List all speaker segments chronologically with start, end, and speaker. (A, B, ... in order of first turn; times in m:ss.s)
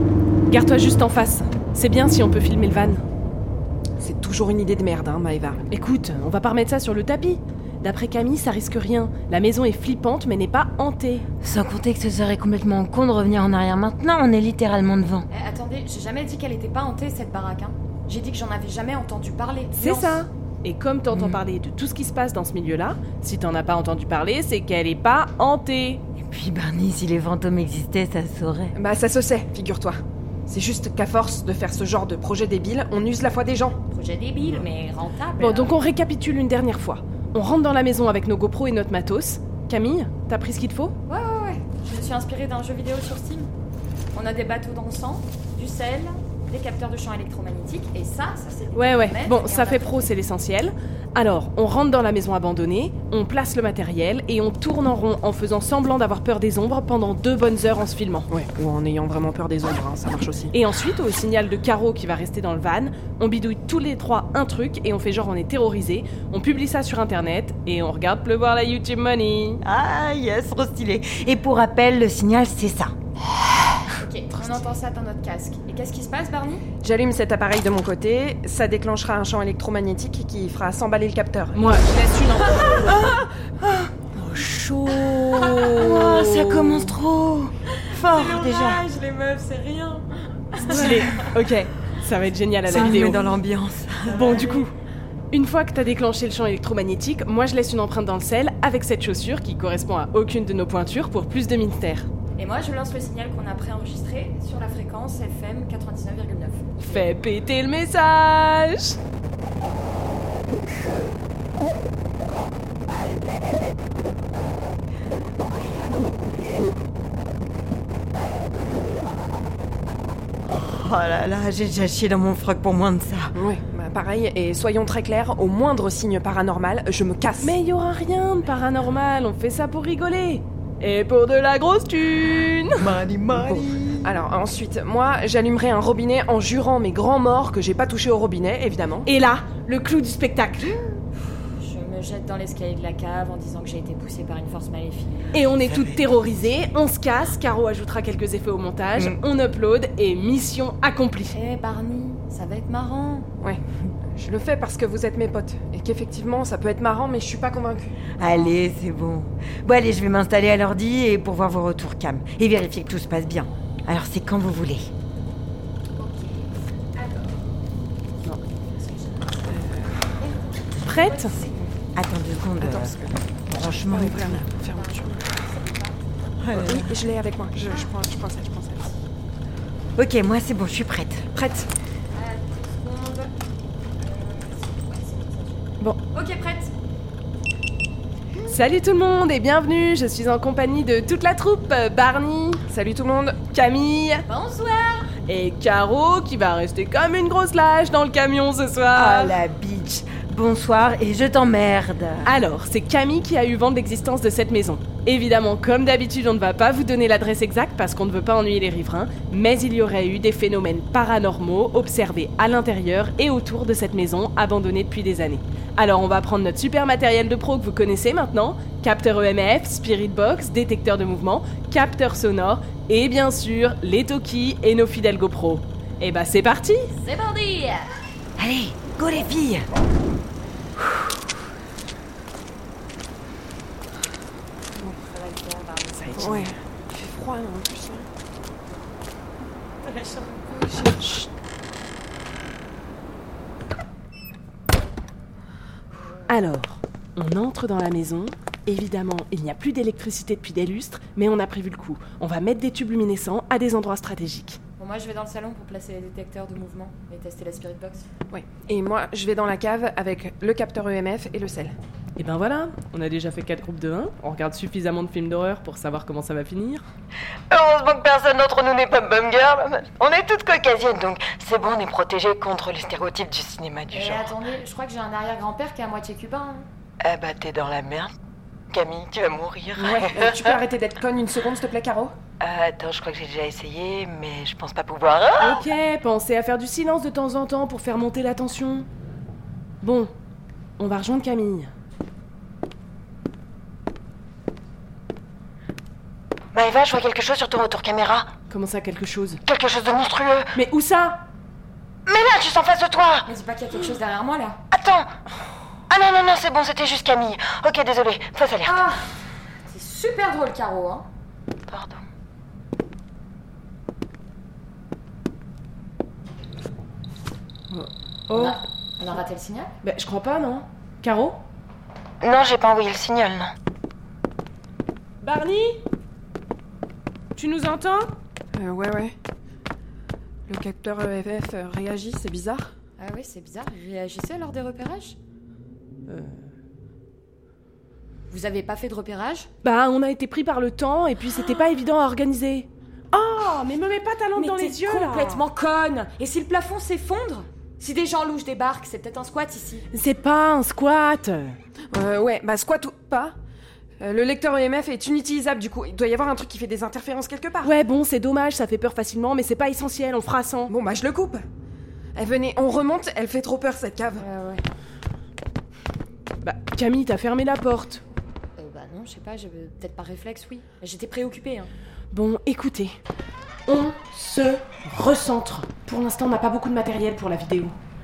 0:00.5-0:03.0 A
0:04.0-0:05.6 B
0:05.7-0:11.3 A
0:11.6-0:14.8 C
0:15.3-0:20.2 D
0:19.7-0:26.0 A
0:21.1-0:21.4 C
0:26.2-0:28.8 C
0:28.8-0:33.8 B
0:33.9-0:35.8 D
0:35.4-0:41.0 A
0:41.1-0:43.5 D
0:44.1-0:49.9 D
0:48.7-0:58.3 A
0:58.3-1:00.5 B
1:00.5-1:09.6 A
1:09.6-1:12.9 C
1:14.0-1:16.7 D
1:16.8-1:21.8 B
1:21.6-1:22.6 A
1:21.8-1:23.2 D
1:24.2-1:26.9 A
1:25.0-1:25.5 D
1:25.1-1:28.8 E
1:26.0-1:27.0 C
1:27.7-1:31.4 D
1:30.6-1:33.4 A
1:32.7-1:33.4 E
1:32.7-1:34.5 C
1:34.1-1:34.7 A
1:34.2-1:34.6 D
1:35.3-1:42.1 A
1:42.4-1:47.1 D
1:46.8-1:49.0 A
2:00.6-2:03.3 C
2:03.3-2:07.5 B
2:07.4-2:12.9 A
2:12.8-2:14.1 C
2:13.3-2:19.1 B
2:19.0-2:21.0 A
2:21.5-2:25.5 D
2:25.3-2:31.4 A
2:31.3-2:33.3 D
2:34.2-2:38.0 B
2:38.2-2:44.9 C
2:46.0-2:47.5 D
2:48.3-2:49.6 D
2:49.5-2:50.1 B
2:50.2-2:51.8 D
2:50.8-2:51.4 A
2:52.0-2:54.5 C
2:52.6-2:55.4 B
2:54.6-2:56.0 D
2:56.4-2:57.0 C
2:56.5-2:59.0 B
3:00.0-3:01.2 C
3:01.3-3:01.7 B
3:02.1-3:03.3 D
3:04.0-3:06.7 D
3:08.5-3:12.6 A
3:12.7-3:13.4 B
3:13.5-3:14.2 A
3:14.3-3:15.1 D
3:15.3-3:19.4 A
3:19.0-3:22.3 C
3:22.2-3:46.9 A
3:46.9-3:48.0 D
3:48.4-3:49.7 C
3:54.7-3:56.4 D
3:56.0-3:56.5 A
3:56.0-3:58.1 B
3:59.8-4:00.4 D
4:00.5-4:01.3 B
4:06.0-4:06.3 D
4:06.3-4:14.6 A
4:14.8-4:18.1 D
4:18.3-4:21.8 B
4:22.2-4:26.8 A
4:27.5-4:34.4 E
4:33.9-4:36.7 D
4:37.0-4:38.1 E
4:38.7-4:40.6 E
4:39.8-4:42.1 B
4:42.4-4:45.6 E
4:45.4-4:48.9 A
4:49.8-4:50.1 A
4:50.8-4:51.7 A
4:56.5-4:58.3 E
4:58.5-4:59.4 A
4:59.4-5:00.5 E
5:00.6-5:01.2 A
5:02.1-5:03.3 E
5:03.3-5:04.6 D
5:04.7-5:05.1 E
5:05.9-5:09.0 E
5:08.6-5:09.1 D
5:09.6-5:11.1 D
5:11.7-5:12.0 E
5:17.7-5:18.6 A
5:18.4-5:19.7 D
5:19.8-5:21.4 A
5:22.2-5:23.5 E
5:25.2-5:25.8 A
5:27.4-5:28.1 A
5:28.6-5:29.2 B
5:30.5-5:32.7 B
5:33.0-5:35.2 D
5:36.1-5:36.5 A
5:38.3-5:39.5 D
5:39.6-5:45.4 A
5:44.3-5:49.9 D
5:49.9-5:51.6 A
5:51.9-5:53.4 B
5:54.0-5:57.7 B
5:57.6-6:00.7 A
6:00.7-6:01.4 B
6:02.2-6:04.3 B
6:04.2-6:04.6 D
6:06.4-6:08.0 A
6:08.6-6:11.7 D
6:12.1-6:13.0 A
6:13.7-6:17.8 A